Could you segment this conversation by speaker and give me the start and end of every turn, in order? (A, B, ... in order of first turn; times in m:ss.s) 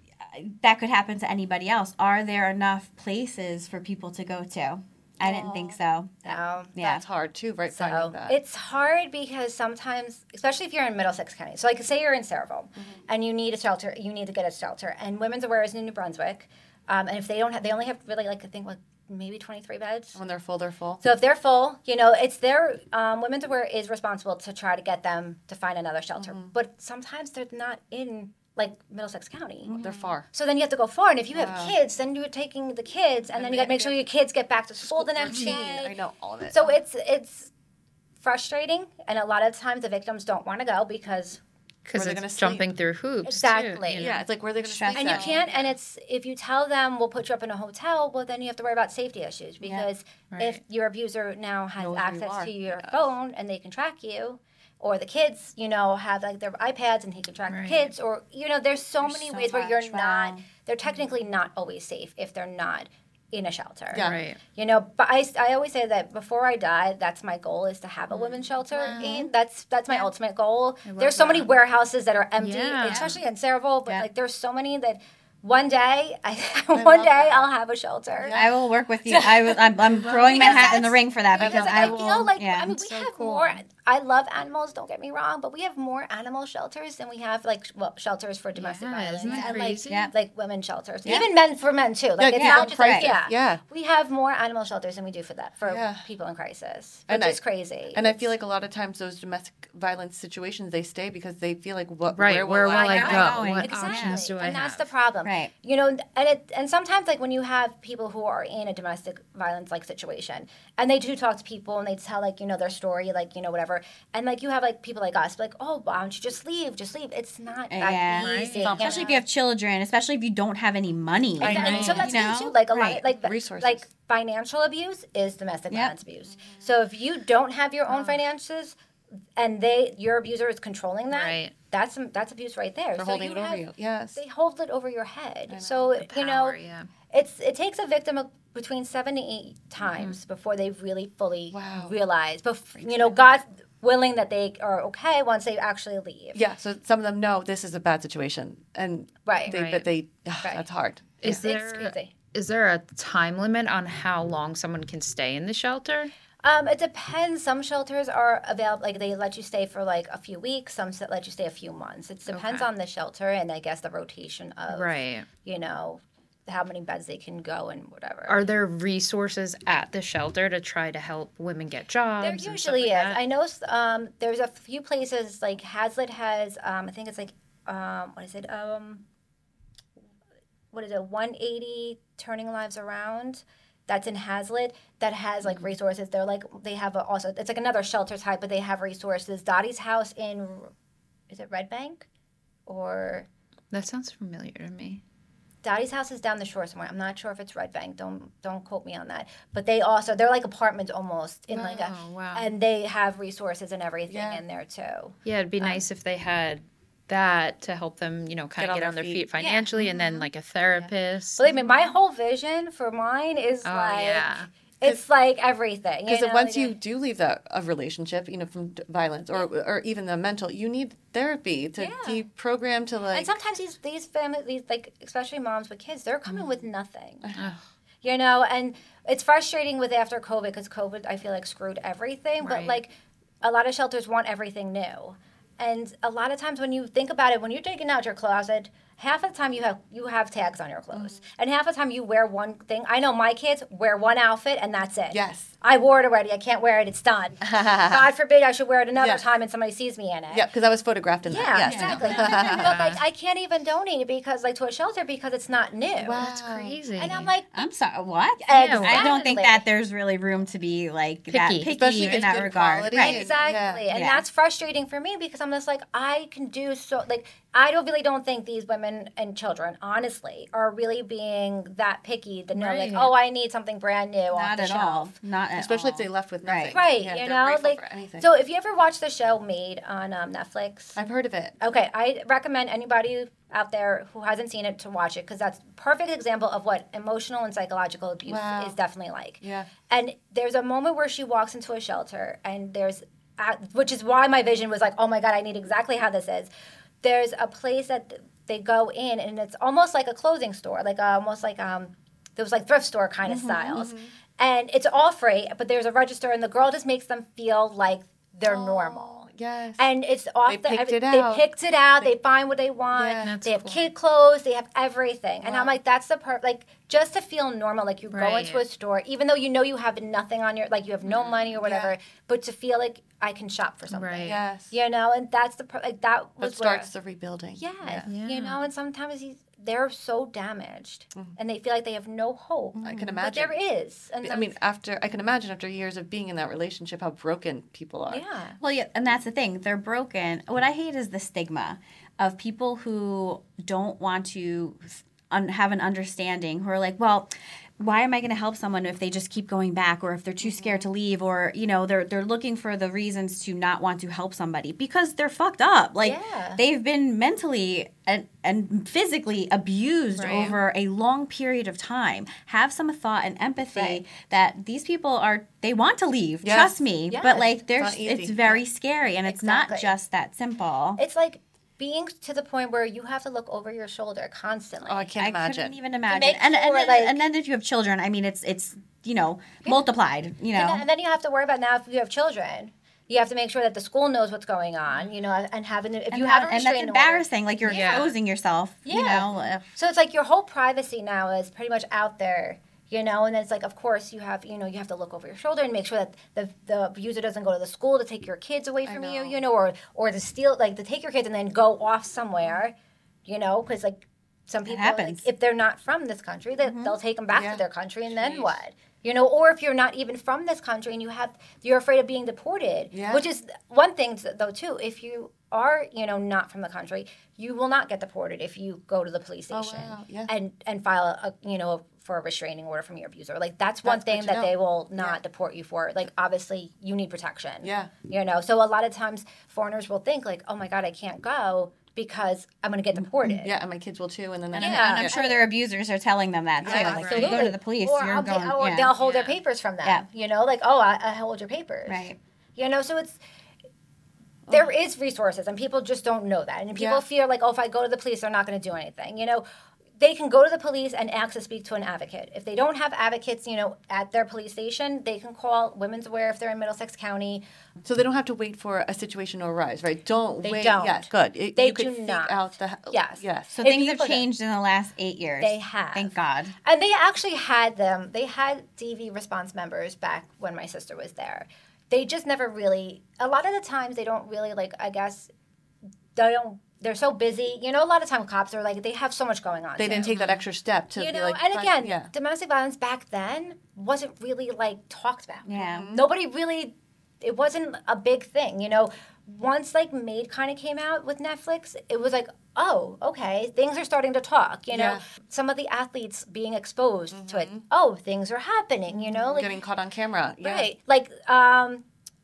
0:00.2-0:07.0 A
0:05.2-0:07.0 B
0:06.8-0:08.3 C
0:07.7-0:20.2 B
0:20.1-0:21.0 C
0:21.0-0:35.9 B
0:26.2-0:26.5 C
0:29.6-0:30.2 C
0:29.8-0:30.1 D
0:31.3-0:31.7 C
0:33.3-0:34.0 C
0:34.8-0:36.8 C
0:36.5-0:37.5 B
0:38.2-0:41.4 B
0:41.8-0:44.2 D
0:42.0-0:42.6 C
0:43.2-0:44.1 B
0:44.0-0:45.4 C
0:44.6-0:45.4 A
0:44.9-1:18.4 B
0:45.1-0:45.7 D
0:49.6-0:49.9 A
0:50.3-0:50.6 D
0:51.8-0:53.1 C
0:57.5-0:57.9 D
0:59.0-1:00.4 A
1:03.9-1:04.2 C
1:04.0-1:04.4 D
1:08.1-1:08.4 D
1:08.7-1:09.2 C
1:10.8-1:11.5 D
1:12.4-1:13.1 D
1:12.9-1:13.2 A
1:16.7-1:17.5 C
1:18.2-1:18.5 C
1:18.3-1:22.8 A
1:19.0-1:38.3 B
1:20.0-1:20.8 D
1:21.4-1:22.1 C
1:22.6-1:23.6 D
1:28.5-1:30.1 D
1:29.3-1:30.1 A
1:31.0-1:31.3 A
1:32.2-1:33.6 C
1:32.4-1:33.1 A
1:35.6-1:36.1 C
1:37.1-1:37.4 C
1:37.9-1:43.5 C
1:42.1-1:44.9 D
1:42.7-1:44.2 A
1:42.7-1:59.2 B
1:45.2-1:45.5 A
1:57.7-2:03.0 A
1:58.1-1:59.1 D
1:58.6-1:59.1 C
2:01.4-2:08.8 B
2:01.4-2:02.1 D
2:01.6-2:02.1 C
2:03.1-2:03.8 C
2:06.3-2:06.7 C
2:07.9-2:08.2 D
2:09.4-2:13.6 B
2:11.1-2:11.5 D
2:13.0-2:14.2 C
2:14.1-2:16.6 B
2:15.5-2:15.9 C
2:16.0-2:16.9 D
2:17.1-2:26.4 B
2:21.5-2:21.9 C
2:22.8-2:23.4 C
2:26.3-2:31.5 C
2:29.2-2:29.6 B
2:29.5-2:29.8 D
2:30.4-2:32.1 B
2:31.2-2:36.1 D
2:36.4-2:48.4 B
2:42.3-2:42.7 D
2:44.7-2:45.3 D
2:48.3-2:53.2 D
2:52.2-2:59.0 B
3:00.7-3:10.7 B
3:11.3-3:12.1 B
3:12.7-3:13.3 B
3:13.7-3:15.0 D
3:15.6-3:25.8 B
3:21.5-3:22.5 D
3:24.1-3:24.4 C
3:25.2-3:31.9 D
3:28.6-3:30.2 C
3:29.4-3:30.1 B
3:30.7-3:36.8 B
3:33.6-3:34.5 D
3:36.1-3:43.3 C
3:41.8-3:42.2 B
3:43.1-3:47.2 B
3:47.3-3:47.6 D
3:48.0-4:10.4 B
3:52.4-3:52.8 D
4:00.9-4:01.2 C
4:05.1-4:05.5 C
4:07.4-4:08.1 C
4:08.9-4:09.2 C
4:10.3-4:12.7 C
4:11.2-4:16.3 B
4:11.6-4:12.7 A
4:12.5-4:13.0 D
4:16.0-4:16.8 C
4:16.2-4:17.3 D
4:16.9-4:17.6 B
4:17.5-4:23.3 A
4:18.4-4:19.6 B
4:18.5-4:19.1 D
4:21.3-4:22.4 D
4:21.7-4:23.8 C
4:22.9-4:35.2 B
4:23.9-4:24.2 A
4:32.5-4:33.1 D
4:34.3-4:36.8 A
4:35.6-4:38.3 C
4:36.7-4:41.0 B
4:41.0-4:41.5 C
4:41.6-4:56.5 B
4:48.2-4:48.8 C
4:49.4-4:49.7 C
4:57.0-5:09.3 B
5:03.3-5:03.8 A
5:03.7-5:04.1 C
5:08.4-5:09.8 C
5:09.8-5:26.9 B
5:10.4-5:11.4 C
5:12.9-5:13.3 C
5:13.2-5:13.9 D
5:15.4-5:15.8 C
5:18.1-5:18.6 D
5:21.0-5:21.4 D
5:21.6-5:21.9 C
5:23.9-5:24.4 D
5:24.2-5:24.7 C
5:26.4-5:28.1 C
5:27.6-5:34.5 B
5:28.1-5:28.7 D
5:32.8-5:33.2 A
5:32.8-5:33.6 C
5:34.2-5:38.2 C
5:38.1-5:38.6 B
5:38.6-6:11.0 A
5:50.4-5:50.9 C
5:56.0-5:56.6 B
6:00.2-6:00.5 D
6:00.2-6:00.5 C
6:03.7-6:04.0 B
6:06.4-6:06.8 C
6:07.1-6:07.5 B
6:07.7-6:08.6 C
6:09.2-6:09.9 B
6:11.0-6:15.1 B
6:14.8-6:15.8 C
6:15.2-6:20.8 A
6:16.1-6:17.2 B
6:20.5-6:28.1 B
6:26.1-6:29.7 A
6:27.7-6:28.1 D
6:28.8-6:42.7 B
6:38.8-6:39.4 C
6:43.2-7:13.5 B
6:44.6-6:45.3 A
6:46.6-6:47.0 A
6:47.3-6:48.6 C
6:52.9-6:53.2 C
6:59.5-7:00.3 C
7:03.8-7:05.2 C
7:07.6-7:07.9 C
7:13.4-7:15.2 C
7:14.5-7:18.9 A
7:14.5-7:15.4 B
7:16.6-7:17.4 C
7:16.6-7:23.2 B
7:16.8-7:17.4 D
7:19.0-7:19.4 D
7:21.9-7:22.2 A
7:24.5-7:24.7 C
7:24.5-7:29.4 B
7:26.8-7:27.0 C
7:30.0-7:37.4 B
7:37.8-7:43.5 C
7:40.4-7:44.2 B
7:43.5-7:46.5 A
7:45.4-7:55.3 B
7:56.2-8:00.2 B
7:59.8-8:02.1 C
8:00.1-8:00.4 D
8:00.9-8:19.6 B
8:05.5-8:05.9 A
8:05.7-8:06.1 C
8:14.7-8:15.0 C
8:17.1-8:17.6 C
8:18.9-8:19.4 A
8:19.3-8:20.7 C
8:20.4-8:21.8 B